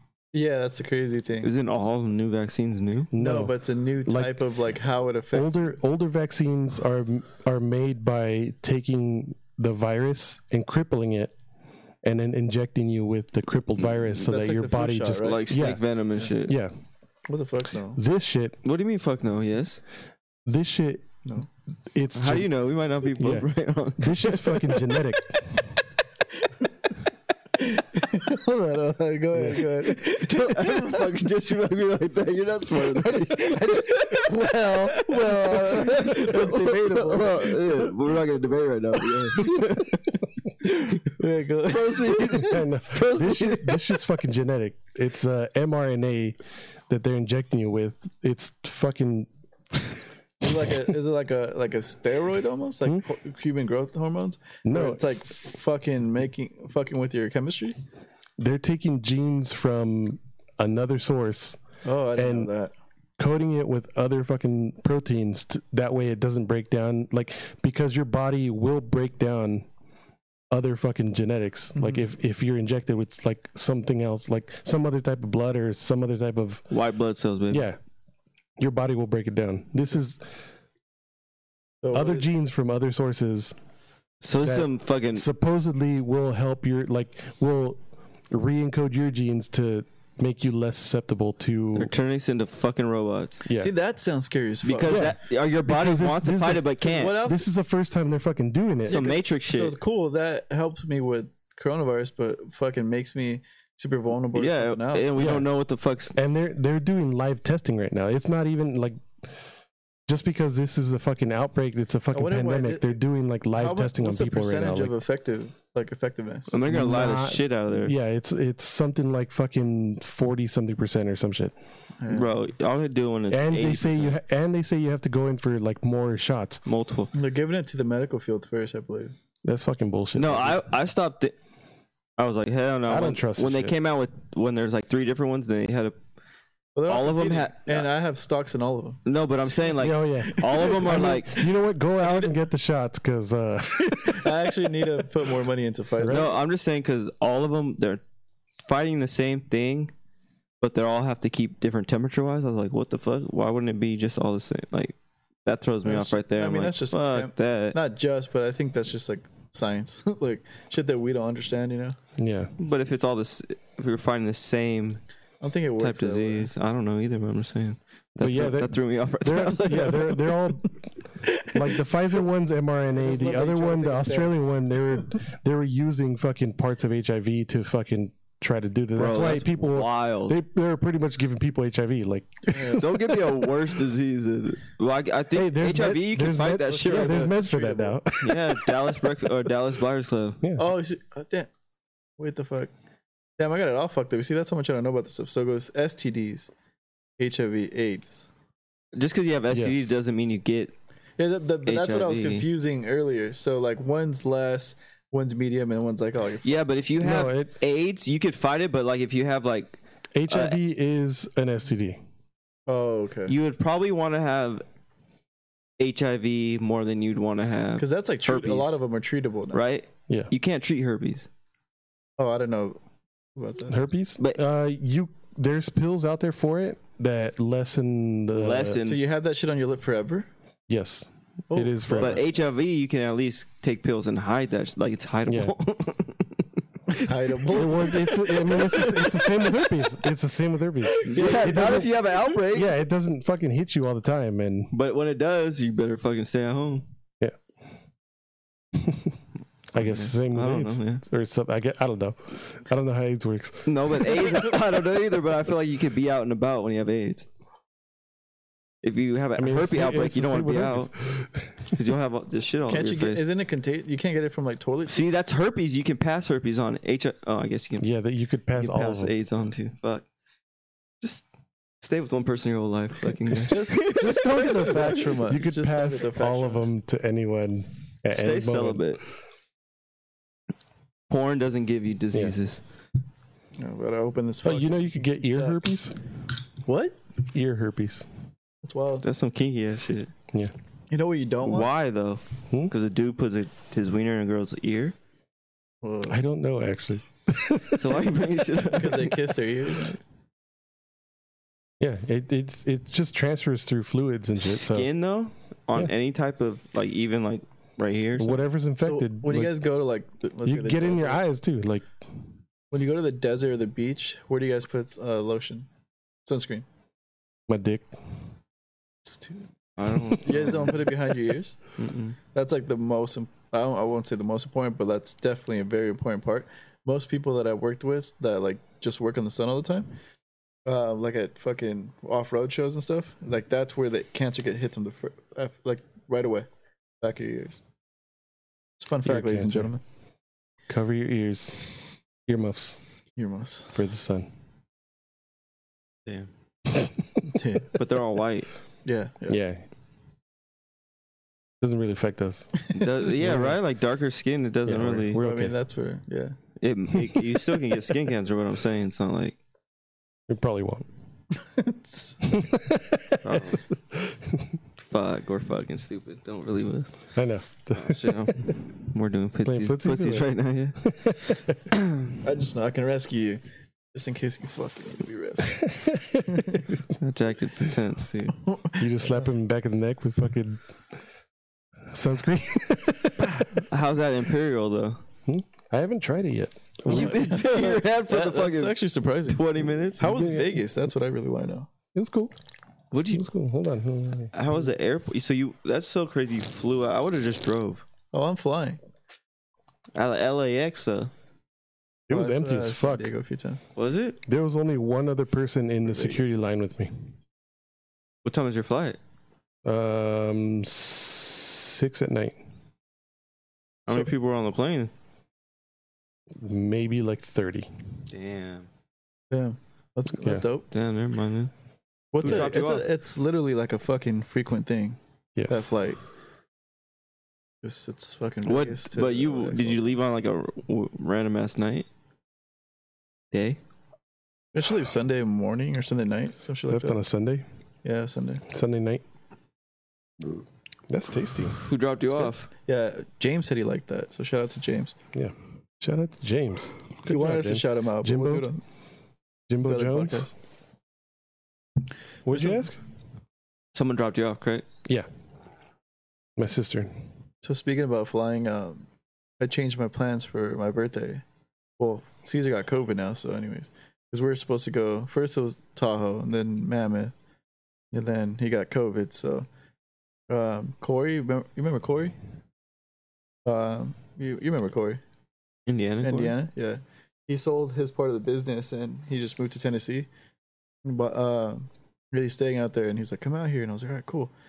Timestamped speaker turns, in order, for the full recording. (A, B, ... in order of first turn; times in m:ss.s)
0:00.3-0:01.5 A
0:01.4-0:03.1 B
0:03.1-0:03.5 C
0:03.2-0:05.8 A
0:04.0-0:04.4 C
0:05.3-0:11.3 C
0:12.0-0:15.8 C
0:13.8-0:14.2 B
0:14.2-0:15.4 A
0:15.2-0:16.6 B
0:16.4-0:16.7 C
0:17.3-0:18.0 A
0:18.0-0:18.6 C
0:18.6-0:19.8 B
0:20.4-0:21.1 C
0:21.9-0:22.5 C
0:22.1-0:24.6 B
0:23.2-0:25.7 C
0:26.4-0:26.9 A
0:27.6-0:31.1 A
0:29.3-0:29.6 C
0:29.8-0:40.1 B
0:33.0-0:38.1 A
0:39.1-0:39.8 A
0:40.6-0:42.6 A
0:41.6-0:44.0 B
0:42.3-0:46.4 C
0:46.9-0:49.3 C
0:50.4-0:57.8 A
0:54.6-0:55.1 C
0:58.4-1:01.6 C
1:01.8-1:02.7 A
1:02.2-1:02.5 C
1:03.2-1:09.7 C
1:10.5-1:16.7 C
1:16.7-1:17.6 B
1:17.5-1:17.8 C
1:18.6-1:20.2 C
1:21.8-1:22.3 A
1:21.9-1:23.6 C
1:24.2-1:25.2 B
1:24.4-1:31.9 C
1:31.7-1:33.4 B
1:33.4-1:33.7 C
1:33.6-1:35.0 A
1:34.6-1:37.2 B
1:34.9-1:39.0 C
1:36.9-1:37.5 A
1:38.9-1:45.4 A
1:38.9-1:39.8 B
1:44.3-1:46.2 B
1:45.2-1:45.5 C
1:46.2-1:49.1 C
1:50.1-1:54.9 C
1:52.1-1:52.9 A
1:53.6-1:56.6 A
1:56.5-1:57.9 B
1:56.6-2:01.5 C
2:02.0-2:02.3 A
2:02.1-2:04.2 B
2:03.3-2:06.6 C
2:06.6-2:07.1 B
2:07.1-2:09.1 A
2:09.4-2:10.6 C
2:10.1-2:11.3 B
2:12.2-2:16.0 B
2:12.9-2:13.8 C
2:16.8-2:19.7 A
2:16.9-2:17.9 B
2:19.0-2:21.5 B
2:19.7-2:24.4 C
2:20.2-2:21.0 A
2:23.8-2:26.3 A
2:26.0-2:26.3 C
2:26.1-2:28.0 B
2:28.6-2:29.9 B
2:30.6-2:34.9 B
2:35.4-2:37.8 B
2:35.8-2:42.0 A
2:42.2-2:42.5 C
2:42.6-2:45.0 B
2:45.4-2:46.5 A
2:45.8-2:50.4 B
2:48.2-3:03.5 C
2:51.2-2:51.7 A
2:53.0-2:54.3 A
2:59.0-3:00.4 B
3:02.5-3:02.8 A
3:02.6-3:07.4 B
3:05.3-3:08.8 C
3:06.7-3:08.0 A
3:08.2-3:10.4 B
3:10.6-3:11.5 A
3:12.2-3:12.7 A
3:13.4-3:16.5 A
3:17.2-3:18.3 A
3:18.9-3:20.7 B
3:19.5-3:19.9 C
3:21.2-3:26.5 A
3:21.6-3:22.4 B
3:26.4-3:30.6 B
3:27.0-3:27.5 C
3:30.1-3:32.0 C
3:32.7-3:33.3 A
3:33.3-3:34.6 B
3:35.8-3:38.8 B
3:37.8-3:39.6 A
3:39.5-3:41.3 B
3:42.2-3:42.8 A
3:43.4-3:43.8 A
3:43.7-3:48.8 C
3:48.3-3:49.0 B
3:48.8-3:50.3 A
3:50.7-3:52.2 C
3:51.5-3:52.3 A
3:51.9-3:56.4 B
3:55.2-3:55.5 C
3:56.9-4:00.0 A
3:57.5-4:01.9 C
4:00.8-4:02.2 A
4:01.0-4:02.7 B
4:02.5-4:04.7 C
4:04.7-4:06.8 B
4:08.7-4:09.2 C
4:09.7-4:14.5 C
4:09.8-4:11.0 B
4:13.6-4:17.3 B
4:18.8-4:20.9 B
4:19.4-4:21.7 C
4:21.7-4:23.2 B
4:22.7-4:25.1 A
4:24.9-4:27.9 B
4:27.8-4:29.1 C
4:28.5-4:30.0 B
4:31.8-4:34.8 B
4:33.4-4:36.7 A
4:33.9-4:38.9 C
4:38.1-4:39.0 B
4:41.1-4:42.6 B
4:43.6-4:44.8 A
4:44.4-4:46.0 C
4:45.3-4:45.6 A
4:46.6-4:47.0 A
4:47.3-4:48.1 C
4:48.6-4:49.0 A
4:49.0-4:50.1 B
4:50.9-4:51.7 A
4:51.4-4:54.9 B
4:55.8-4:56.2 A
4:56.1-4:58.0 C
4:57.7-4:59.3 B
4:58.7-5:00.0 A
5:01.8-5:04.9 C
5:04.4-5:08.4 B
5:08.2-5:09.6 C
5:08.8-5:11.2 A
5:10.4-5:11.9 C
5:12.7-5:15.7 A
5:16.2-5:16.6 A
5:17.5-5:17.9 C
5:19.0-5:19.5 A
5:19.8-5:20.8 B
5:20.2-5:21.6 A
5:21.8-5:22.2 B
5:22.3-5:29.9 A
5:30.6-5:36.5 A
5:37.0-5:37.6 A
5:38.8-5:39.8 A
5:39.0-5:39.7 C
5:40.7-5:42.8 C
5:43.2-5:43.8 A
5:43.7-5:44.3 C
5:46.8-5:47.3 C
5:47.3-5:47.7 A
5:47.7-5:48.5 B
5:48.8-5:49.4 A
5:49.3-5:49.6 C
5:51.6-5:53.6 C
5:52.7-5:55.2 B
5:54.6-5:55.5 C
5:55.2-5:56.4 A
5:56.6-5:59.4 B
6:00.3-6:00.9 C
6:01.4-6:02.4 A
6:02.3-6:03.2 C
6:03.2-6:03.6 B
6:04.0-6:04.4 C
6:04.8-6:07.1 B
6:07.1-6:08.5 C
6:07.7-6:12.2 B
6:09.4-6:10.3 C
6:10.8-6:11.6 C
6:12.2-6:13.4 A
6:13.9-6:15.7 A
6:15.6-6:16.4 C
6:16.2-6:16.7 A
6:16.9-6:18.4 B
6:18.4-6:19.2 A
6:18.8-6:20.7 C
6:21.9-6:23.6 C
6:23.7-6:25.0 B
6:25.2-6:27.2 C
6:26.8-6:31.7 A
6:26.9-6:30.1 B
6:30.0-6:30.6 C
6:31.9-6:32.3 C
6:32.9-6:33.2 B
6:33.1-6:34.3 C
6:34.3-6:37.8 B
6:38.1-6:38.8 A
6:39.9-6:41.1 B
6:42.1-6:43.1 C
6:42.1-6:43.6 A
6:43.8-6:44.2 B
6:44.2-6:47.1 C
6:45.9-6:46.2 A
6:48.2-6:49.0 B
6:49.6-6:52.4 C
6:53.9-6:54.9 B
6:56.4-6:57.7 C
6:58.1-6:58.7 B
6:59.3-7:00.7 A
7:00.7-7:01.5 B
7:02.1-7:06.0 A
7:02.2-7:02.8 B
7:07.6-7:09.8 A
7:08.4-7:11.9 B
7:13.3-7:13.6 B
7:14.5-7:17.0 A
7:16.7-7:17.4 C
7:17.8-7:18.4 A
7:18.5-7:19.0 C
7:20.9-7:21.6 C
7:21.6-7:22.5 B
7:22.6-7:25.0 A
7:25.1-7:28.5 C
7:27.0-7:28.6 A
7:29.5-7:30.3 C
7:29.6-7:30.3 A
7:32.2-7:32.8 C
7:32.3-7:32.7 A
7:33.7-7:34.7 B
7:36.4-7:36.9 C
7:37.4-7:38.8 A
7:39.4-7:41.2 A
7:41.8-7:47.1 A
7:47.9-7:49.5 A
7:50.3-7:52.1 A
7:53.4-7:55.0 A
7:55.7-7:56.4 B
7:56.0-8:00.1 A
8:00.8-8:04.3 A